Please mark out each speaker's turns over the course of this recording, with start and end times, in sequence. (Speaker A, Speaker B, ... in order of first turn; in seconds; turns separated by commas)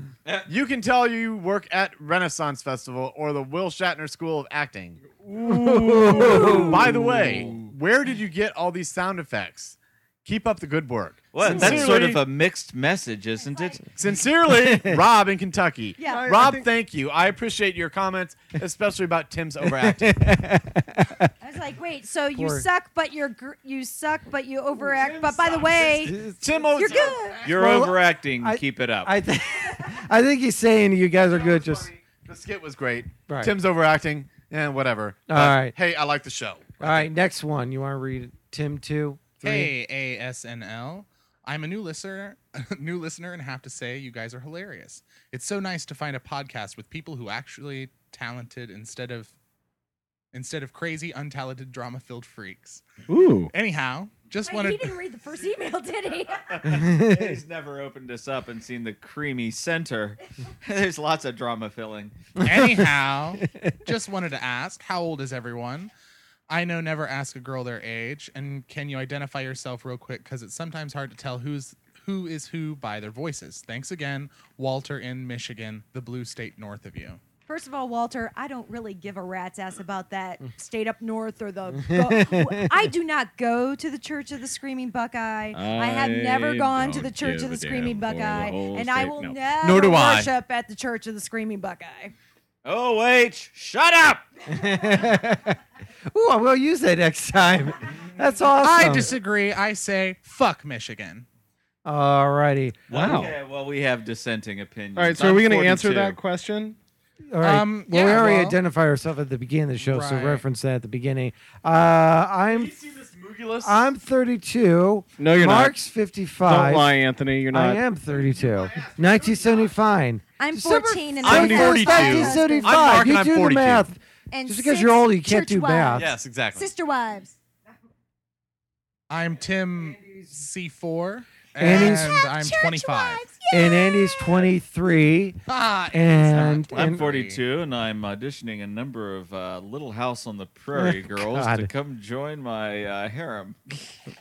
Speaker A: 0.5-5.1, Speaker B: 5.2-7.7, Speaker C: 5.4-7.0, Speaker A: 6.0-12.2, Speaker D: 11.3-13.8, Speaker C: 11.5-11.8, Speaker B: 11.5-11.9, Speaker E: 13.4-13.8, Speaker A: 13.9-20.2, Speaker C: 14.4-15.0, Speaker E: 16.0-16.3, Speaker B: 16.1-16.6, Speaker C: 19.6-21.3, Speaker E: 21.4-26.2, Speaker C: 22.3-22.6, Speaker A: 24.8-27.4, Speaker C: 25.9-31.9, Speaker E: 26.7-27.4, Speaker D: 27.4-29.1, Speaker A: 31.2-37.0, Speaker C: 33.3-33.5, Speaker C: 35.3-35.7, Speaker C: 36.8-39.7, Speaker F: 39.4-49.3, Speaker F: 50.3-52.8, Speaker B: 53.1-53.5, Speaker F: 53.5-55.0, Speaker E: 54.4-56.6, Speaker D: 56.4-62.1, Speaker C: 56.6-57.4, Speaker C: 62.4-63.8, Speaker F: 62.4-65.9, Speaker F: 66.5-77.2, Speaker E: 77.5-92.1, Speaker C: 81.8-82.9, Speaker B: 85.5-89.4, Speaker A: 89.6-90.3, Speaker D: 92.6-94.2, Speaker C: 94.5-95.6, Speaker C: 96.1-99.1, Speaker F: 98.6-101.2, Speaker C: 101.8-103.0, Speaker B: 102.9-103.3, Speaker D: 102.9-106.2, Speaker B: 105.0-106.8, Speaker C: 107.3-112.7, Speaker F: 107.4-108.6, Speaker F: 109.8-110.4, Speaker A: 112.5-113.8, Speaker C: 113.6-116.9, Speaker B: 115.2-115.7, Speaker B: 116.4-117.8, Speaker C: 117.5-126.1, Speaker A: 118.0-119.7, Speaker E: 120.4-123.1, Speaker A: 121.2-123.8, Speaker B: 121.3-121.8, Speaker E: 124.3-127.3, Speaker A: 126.0-126.7, Speaker F: 129.1-133.3, Speaker C: 131.6-132.1, Speaker E: 131.7-134.4, Speaker C: 133.5-135.4, Speaker F: 135.5-137.4, Speaker C: 135.9-137.1, Speaker D: 136.6-143.9, Speaker C: 140.7-141.7